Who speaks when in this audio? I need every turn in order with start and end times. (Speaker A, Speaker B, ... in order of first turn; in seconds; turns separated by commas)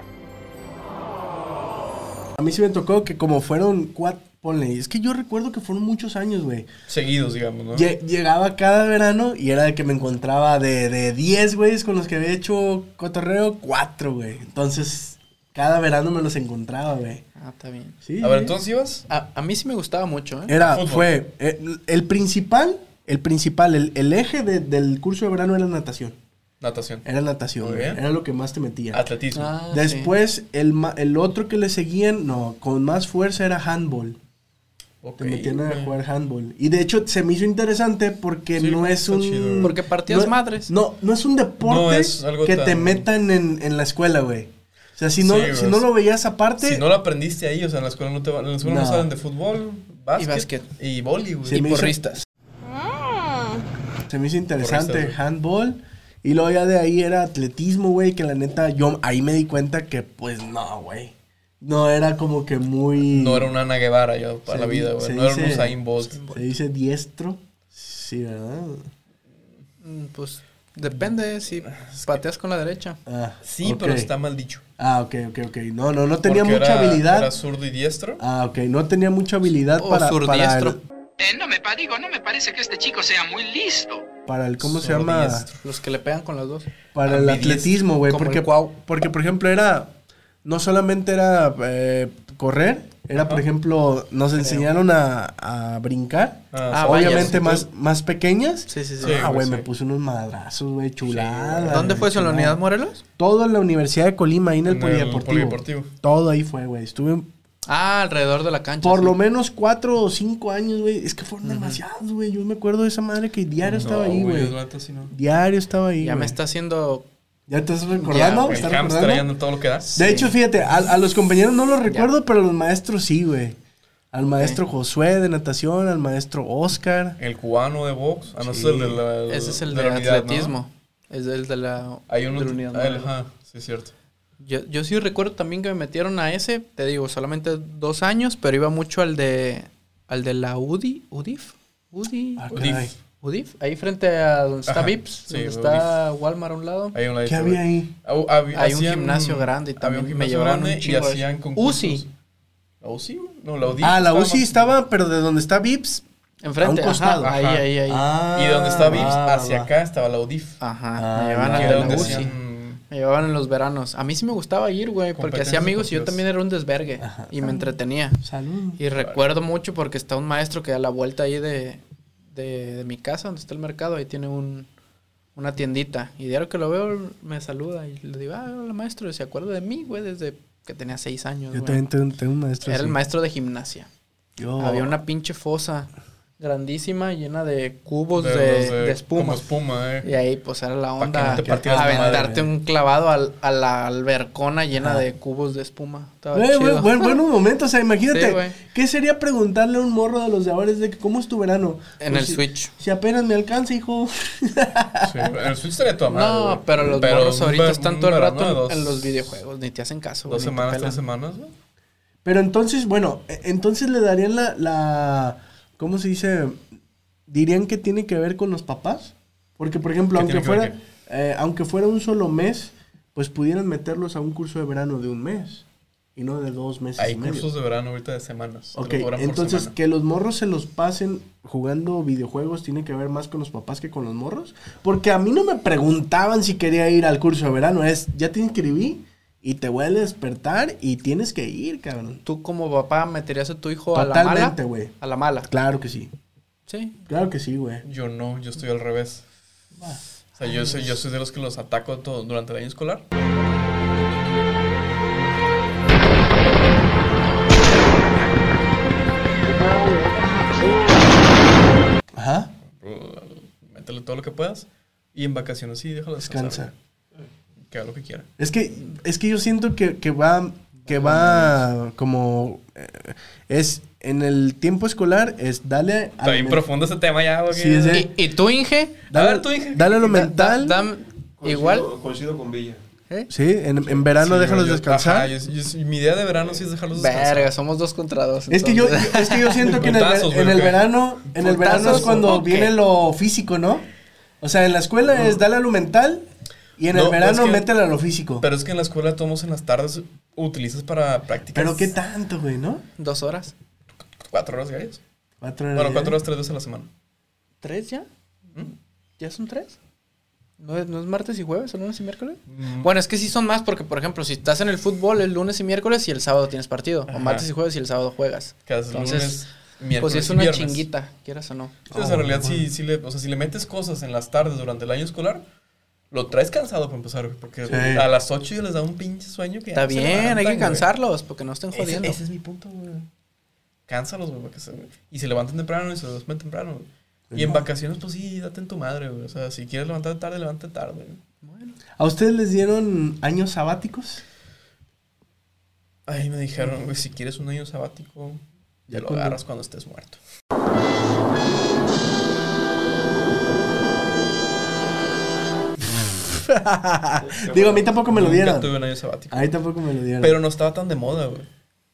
Speaker A: 2.4-6.7, Speaker B: 6.9-7.9, Speaker A: 7.7-17.2, Speaker C: 17.4-17.9, Speaker A: 18.0-18.6, Speaker B: 18.2-19.1, Speaker C: 19.1-20.6, Speaker A: 20.5-26.2, Speaker B: 20.6-21.2, Speaker B: 26.6-27.1, Speaker A: 27.1-29.0, Speaker B: 27.6-28.0, Speaker B: 28.9-29.5, Speaker C: 29.4-30.1, Speaker A: 29.7-34.2, Speaker B: 35.0-35.9, Speaker A: 35.2-46.9, Speaker B: 38.6-39.8, Speaker C: 39.6-40.7, Speaker B: 41.6-43.0, Speaker B: 45.2-45.9, Speaker B: 46.6-51.9, Speaker A: 48.6-49.1, Speaker C: 50.2-50.7, Speaker A: 51.5-52.0, Speaker C: 51.6-52.2, Speaker A: 54.1-63.5, Speaker B: 54.6-55.2, Speaker B: 63.0-66.2, Speaker A: 64.5-68.9, Speaker C: 66.1-66.5, Speaker C: 69.8-73.0, Speaker B: 70.8-72.2, Speaker A: 73.1-74.1, Speaker B: 73.4-74.6, Speaker A: 74.8-77.3, Speaker B: 76.2-78.2, Speaker A: 78.2-80.8, Speaker C: 79.8-80.8, Speaker D: 81.2-84.1, Speaker A: 84.3-85.5, Speaker B: 84.6-85.7, Speaker C: 85.6-86.7, Speaker A: 86.9-89.9, Speaker B: 87.0-87.8, Speaker C: 88.1-88.8, Speaker A: 90.5-102.6, Speaker B: 93.2-93.5, Speaker C: 94.4-94.7, Speaker B: 96.5-97.7, Speaker C: 96.7-97.4, Speaker C: 98.7-99.2, Speaker B: 99.0-99.7, Speaker B: 101.0-102.0, Speaker C: 101.7-103.0, Speaker A: 103.2-107.3, Speaker B: 104.6-105.9, Speaker C: 107.7-109.2, Speaker A: 108.8-114.6, Speaker C: 111.4-111.8, Speaker B: 113.6-115.1, Speaker A: 115.1-116.4, Speaker C: 116.0-117.1, Speaker A: 117.5-119.3, Speaker C: 118.0-118.7, Speaker B: 118.4-119.9, Speaker C: 119.9-120.7, Speaker A: 120.0-123.6, Speaker A: 124.1-127.2, Speaker C: 124.3-124.6, Speaker B: 127.2-130.6, Speaker A: 128.4-129.0, Speaker C: 129.3-133.1, Speaker B: 132.1-133.9, Speaker C: 134.4-142.5, Speaker A: 142.4-142.9, Speaker B: 142.5-142.9, Speaker C: 143.2-147.0, Speaker B: 144.7-145.9, Speaker B: 146.9-152.1, Speaker A: 147.2-147.9, Speaker C: 148.5-152.0, Speaker B: 152.8-154.7, Speaker A: 153.8-156.0, Speaker C: 156.4-158.1, Speaker A: 156.6-157.4, Speaker B: 157.2-157.7, Speaker A: 157.9-159.7, Speaker B: 158.3-160.6, Speaker C: 158.9-159.2, Speaker C: 160.6-162.3, Speaker A: 161.0-162.3, Speaker B: 161.5-162.8, Speaker C: 162.9-168.2, Speaker B: 165.2-166.2, Speaker A: 167.0-168.8, Speaker C: 168.8-171.8, Speaker B: 169.0-169.2, Speaker C: 172.3-174.7, Speaker C: 175.3-181.8, Speaker A: 181.5-183.0, Speaker C: 182.6-183.9, Speaker A: 184.4-185.0, Speaker C: 184.6-189.5, Speaker B: 188.2-190.1, Speaker C: 190.0-197.2, Speaker B: 191.0-192.3, Speaker A: 191.4-192.5, Speaker A: 194.8-195.1, Speaker A: 196.3-205.3, Speaker C: 198.1-198.6, Speaker C: 202.0-202.7, Speaker B: 205.0-209.4, Speaker C: 206.1-211.0, Speaker B: 210.3-211.5, Speaker A: 212.2-216.6, Speaker A: 217.3-227.5, Speaker B: 220.1-220.8, Speaker B: 227.0-229.7, Speaker A: 228.8-242.2, Speaker C: 242.2-245.5, Speaker A: 243.9-244.9, Speaker A: 245.4-246.1, Speaker C: 246.7-247.0, Speaker A: 247.1-247.8, Speaker B: 247.8-249.2, Speaker A: 249.8-250.8, Speaker B: 250.4-253.1, Speaker A: 262.2-262.5, Speaker B: 262.7-266.7, Speaker A: 266.2-266.7, Speaker B: 267.6-268.3, Speaker A: 268.4-276.6, Speaker B: 270.9-271.5, Speaker B: 276.2-278.1, Speaker A: 277.5-278.1, Speaker C: 277.9-279.0, Speaker A: 279.1-280.9, Speaker B: 279.1-280.3, Speaker C: 280.1-281.9, Speaker E: 281.4-282.8, Speaker A: 283.3-285.3, Speaker B: 284.0-287.5, Speaker C: 286.9-289.7, Speaker A: 288.5-293.9, Speaker B: 289.6-290.9, Speaker C: 291.4-292.8, Speaker B: 291.5-292.3, Speaker A: 294.4-296.2, Speaker A: 296.8-298.5, Speaker B: 296.9-297.7, Speaker B: 298.4-301.9, Speaker A: 301.5-302.8, Speaker C: 303.0-303.5, Speaker B: 304.3-305.0, Speaker A: 305.4-306.2, Speaker B: 305.7-306.9, Speaker C: 307.6-308.1, Speaker C: 309.2-309.8, Speaker C: 310.6-321.8, Speaker B: 312.5-312.9, Speaker B: 317.1-317.5, Speaker B: 318.7-320.9, Speaker A: 321.9-322.7, Speaker B: 321.9-325.4, Speaker B: 326.1-330.9, Speaker A: 327.7-328.1, Speaker C: 329.7-332.2, Speaker B: 331.7-333.1, Speaker B: 333.9-341.2, Speaker A: 337.3-337.7, Speaker C: 341.4-341.8, Speaker A: 342.0-344.2, Speaker B: 346.1-350.2, Speaker A: 348.9-349.4, Speaker A: 356.2-358.7, Speaker E: 357.2-358.0, Speaker B: 358.1-359.6, Speaker A: 359.3-360.4, Speaker B: 360.2-361.5